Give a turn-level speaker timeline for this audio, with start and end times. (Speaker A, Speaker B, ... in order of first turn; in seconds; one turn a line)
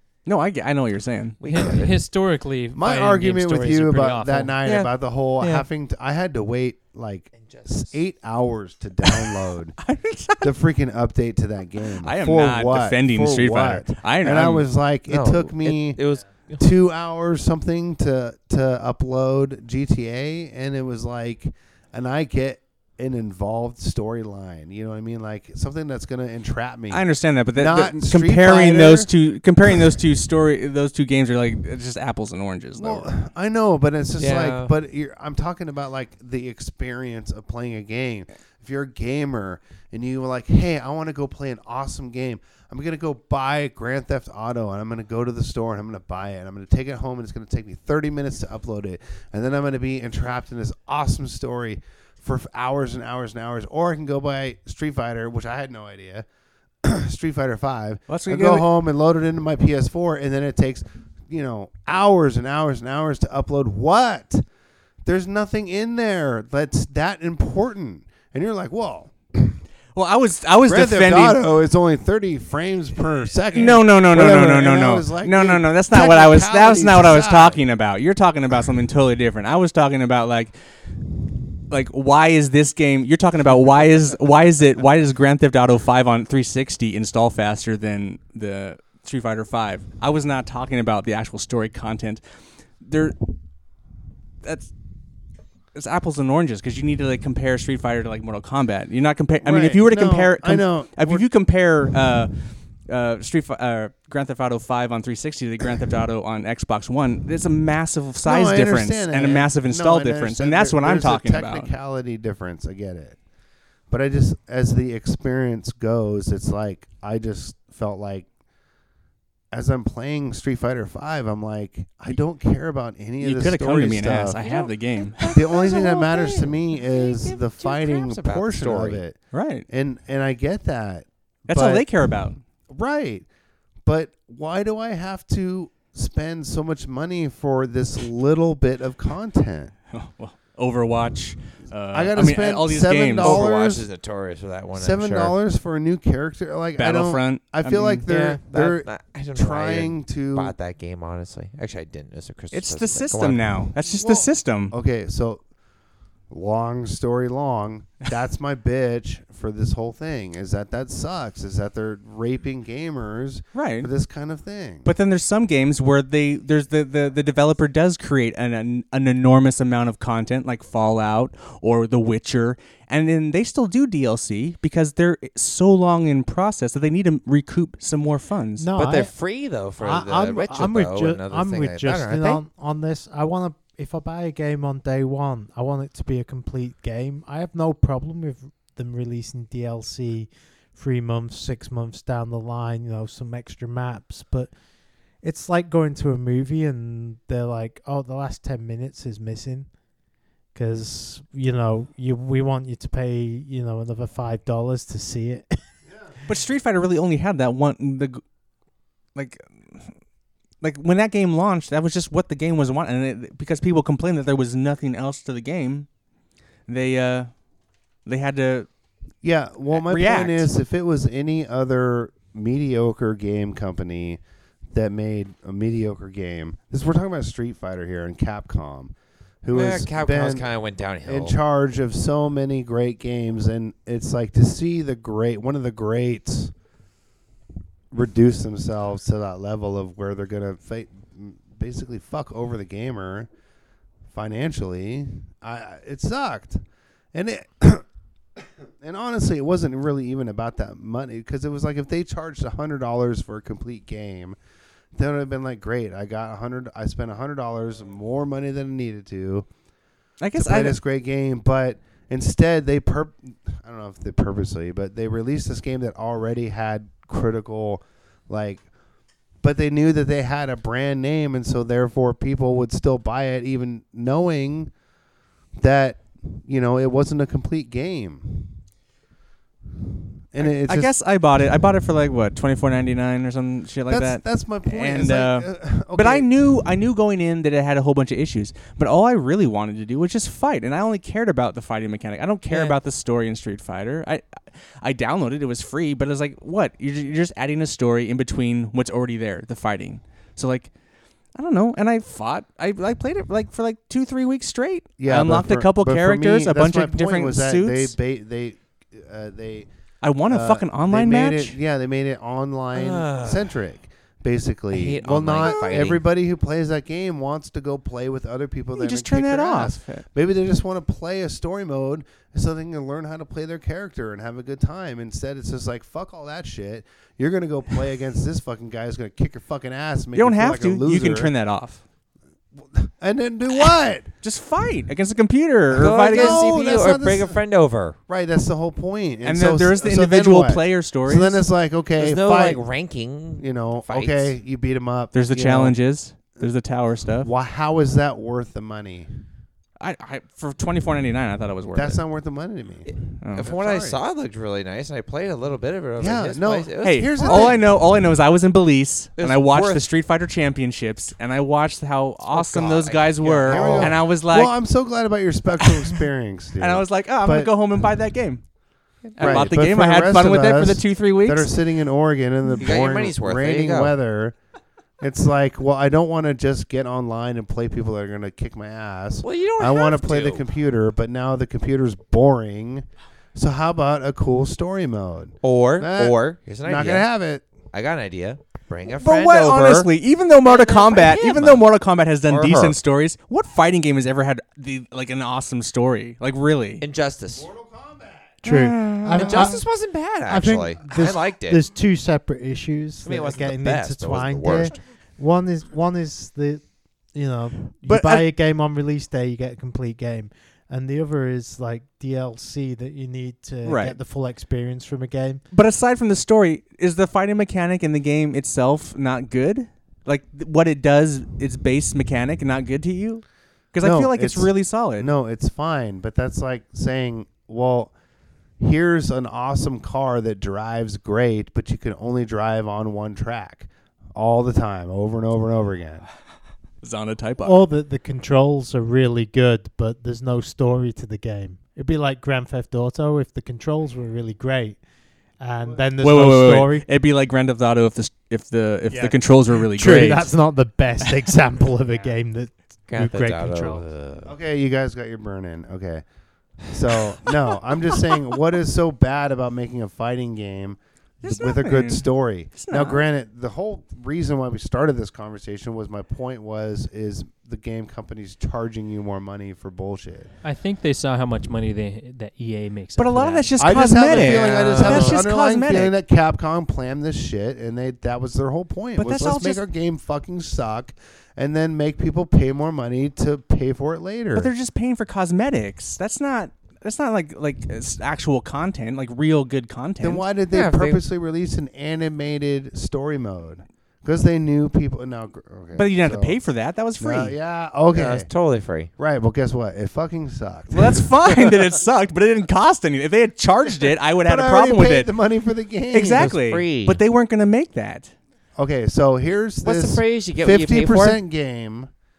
Speaker A: 0.2-1.4
Speaker B: 1.4-2.0
Speaker C: 1.4-4.6
Speaker D: 2.7-9.8
Speaker B: 4.6-5.6
Speaker B: 7.4-7.9
Speaker A: 9.8-10.5
Speaker D: 10.4-16.0
Speaker A: 12.0-14.7
Speaker B: 15.1-16.7
Speaker D: 16.6-27.0
Speaker A: 26.9-33.1
Speaker D: 27.5-29.1
Speaker D: 32.8-56.2
Speaker B: 34.2-34.7
Speaker D: 56.8-64.4
Speaker A: 58.1-58.7
Speaker D: 65.0-69.6
Speaker A: 69.9-71.4
Speaker D: 70.7-77.6
Speaker A: 73.5-80.5
Speaker A: 81.7-92.2
Speaker A: 92.8-93.2
Speaker A: 94.4-94.7
Speaker A: 95.7-102.3
Speaker D: 99.4-101.2
Speaker A: 102.9-111.7
Speaker D: 108.2-113.2
Speaker D: 113.9-118.3
Speaker D: 119.5-124.4
Speaker A: 123.2-125.4
Speaker B: 124.4-129.0
Speaker D: 125.3-129.2
Speaker A: 129.3-129.6
Speaker D: 129.7-131.9
Speaker A: 131.5-132.4
Speaker D: 132.7-133.3
Speaker D: 133.8-139.7
Speaker A: 139.9-143.5
Speaker D: 141.9-143.8
Speaker B: 143.2-145.3
Speaker D: 144.7-150.5
Speaker A: 146.8-148.0
Speaker B: 148.1-153.5
Speaker A: 152.5-154.7
Speaker D: 153.9-155.4
Speaker D: 156.3-164.9
Speaker A: 163.5-163.9
Speaker A: 164.8-178.7
Speaker E: 178.6-179.1
Speaker B: 178.7-182.4
Speaker E: 179.8-194.5
Speaker E: 195.2-199.7
Speaker E: 200.5-205.6
Speaker A: 206.2-208.2
Speaker A: 209.1-209.9
Speaker A: 210.6-215.9
Speaker A: 216.7-217.3
Speaker A: 218.1-218.7
Speaker D: 219.2-224.2
Speaker A: 219.7-220.5
Speaker D: 224.7-230.5
Speaker B: 229.5-231.3
Speaker D: 231.1-236.5
Speaker D: 237.9-243.3
Speaker D: 244.1-246.6
Speaker D: 247.1-247.8
Speaker D: 248.4-254.4
Speaker D: 254.9-259.5
Speaker A: 260.2-260.8
Speaker D: 260.3-268.6
Speaker D: 269.4-274.7
Speaker D: 275.6-278.5
Speaker D: 280.3-280.9
Speaker A: 280.4-294.2
Speaker D: 283.9-286.3
Speaker B: 292.5-292.8
Speaker A: 294.8-300.7
Speaker A: 301.3-307.9
Speaker D: 305.0-309.7
Speaker A: 310.0-311.6
Speaker D: 310.3-331.3
Speaker B: 312.7-313.5
Speaker B: 314.7-316.0
Speaker A: 315.4-315.8
Speaker A: 318.8-320.1
Speaker A: 330.1-331.8
Speaker D: 332.5-334.1
Speaker A: 334.2-336.5
Speaker B: 335.7-338.0
Speaker D: 336.1-337.4
Speaker D: 338.1-342.6
Speaker A: 339.2-341.4
Speaker B: 342.0-344.3
Speaker D: 343.4-345.8
Speaker A: 345.1-347.3
Speaker D: 347.2-349.1
Speaker A: 349.8-352.0
Speaker D: 351.7-354.0
Speaker B: 352.9-357.6
Speaker A: 353.2-353.5
Speaker D: 356.0-357.7
Speaker A: 356.8-364.6
Speaker B: 359.2-359.9
Speaker B: 362.3-364.0
Speaker D: 363.4-367.5
Speaker A: 366.6-368.4
Speaker B: 369.0-369.5
Speaker A: 369.2-371.5
Speaker D: 369.2-374.3
Speaker B: 372.6-373.9
Speaker D: 375.0-387.4
Speaker B: 379.2-380.4
Speaker B: 385.4-387.1
Speaker B: 387.6-389.9
Speaker A: 389.0-396.8
Speaker B: 390.4-391.6
Speaker B: 392.3-392.8
Speaker B: 396.8-397.5
Speaker D: 397.4-398.4
Speaker E: 398.4-399.6
Speaker A: 398.4-399.6
Speaker B: 399.1-401.6
Speaker E: 400.3-415.4
Speaker B: 403.0-404.8
Speaker A: 407.8-408.3
Speaker A: 413.6-414.0
Speaker A: 415.5-425.1
Speaker D: 423.8-427.9
Speaker D: 428.6-436.1
Speaker A: 436.8-437.6
Speaker E: 437.4-444.8
Speaker E: 445.4-446.9
Speaker A: 446.0-450.3
Speaker E: 449.7-453.9
Speaker B: 452.9-454.3
Speaker D: 454.2-456.0
Speaker D: 456.7-470.3
Speaker A: 461.2-463.0
Speaker C: 470.4-473.5
Speaker A: 473.0-475.9
Speaker D: 473.6-484.5
Speaker B: 474.1-475.2
Speaker A: 478.9-479.6
Speaker A: 484.3-490.2
Speaker D: 490.0-496.4
Speaker B: 490.5-491.0
Speaker A: 495.7-497.4
Speaker D: 497.0-498.3
Speaker B: 497.9-498.9
Speaker D: 499.0-501.1
Speaker A: 500.7-505.1
Speaker D: 504.2-506.4
Speaker A: 505.9-508.1
Speaker B: 506.1-507.0
Speaker D: 508.6-511.9
Speaker B: 509.6-511.2